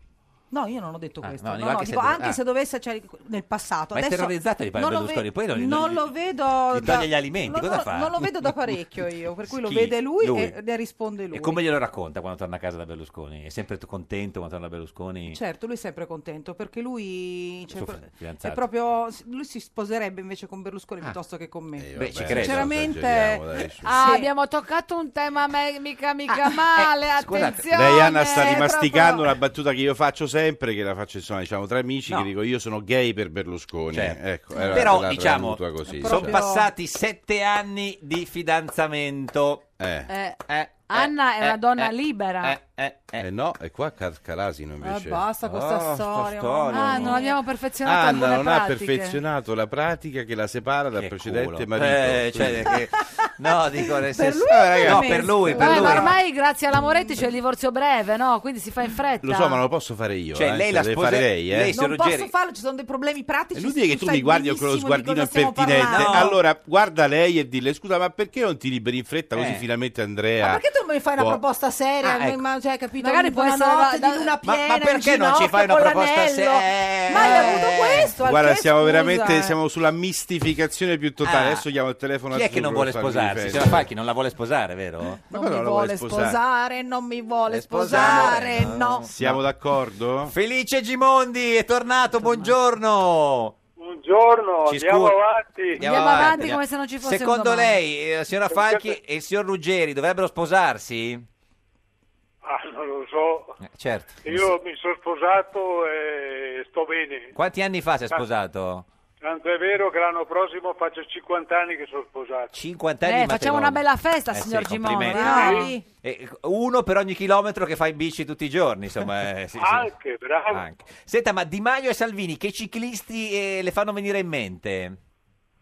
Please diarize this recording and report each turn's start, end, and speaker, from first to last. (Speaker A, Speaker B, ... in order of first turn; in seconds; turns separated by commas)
Speaker A: 0.5-11.6, Speaker B: 1.2-2.4, Speaker B: 3.9-6.1, Speaker B: 6.7-8.3, Speaker B: 9.5-10.6, Speaker B: 11.3-15.4, Speaker A: 15.3-24.3, Speaker B: 17.7-18.6, Speaker C: 21.8-23.9, Speaker B: 21.9-22.7, Speaker D: 23.8-29.1, Speaker B: 27.2-27.7, Speaker C: 27.7-36.4, Speaker A: 28.3-29.1, Speaker B: 33.9-39.7, Speaker A: 35.9-36.7, Speaker C: 39.8-40.1, Speaker D: 40.1-42.6, Speaker B: 40.5-43.2, Speaker C: 43.2-45.3, Speaker A: 44.8-47.4, Speaker B: 45.4-47.2, Speaker D: 46.7-49.2, Speaker C: 47.8-52.8, Speaker B: 50.9-56.1, Speaker A: 53.9-56.2, Speaker C: 54.5-55.9, Speaker D: 55.5-59.6, Speaker C: 59.2-61.7, Speaker B: 60.3-62.3, Speaker A: 61.7-66.3, Speaker C: 63.5-70.6, Speaker B: 65.8-66.3, Speaker B: 69.3-69.6, Speaker A: 70.4-79.5, Speaker C: 71.2-71.4, Speaker B: 72.0-72.4, Speaker D: 73.0-74.3, Speaker B: 74.4-78.1, Speaker D: 77.2-77.6, Speaker C: 78.2-83.8, Speaker B: 81.2-81.6, Speaker B: 82.3-85.2, Speaker A: 85.3-89.1, Speaker C: 85.3-86.4, Speaker B: 87.5-89.4, Speaker C: 87.9-88.4, Speaker C: 89.1-90.3, Speaker B: 90.3-93.5, Speaker D: 92.2-92.5, Speaker E: 93.8-95.8, Speaker B: 94.7-95.2, Speaker B: 95.8-101.2, Speaker D: 95.8-97.8, Speaker E: 98.5-98.9, Speaker E: 102.4-103.6, Speaker B: 103.6-104.5, Speaker E: 104.2-107.3, Speaker B: 107.3-108.8, Speaker E: 109.2-112.5, Speaker B: 112.5-119.9, Speaker D: 113.0-115.7, Speaker A: 115.0-115.8, Speaker E: 119.6-120.6, Speaker B: 120.5-125.0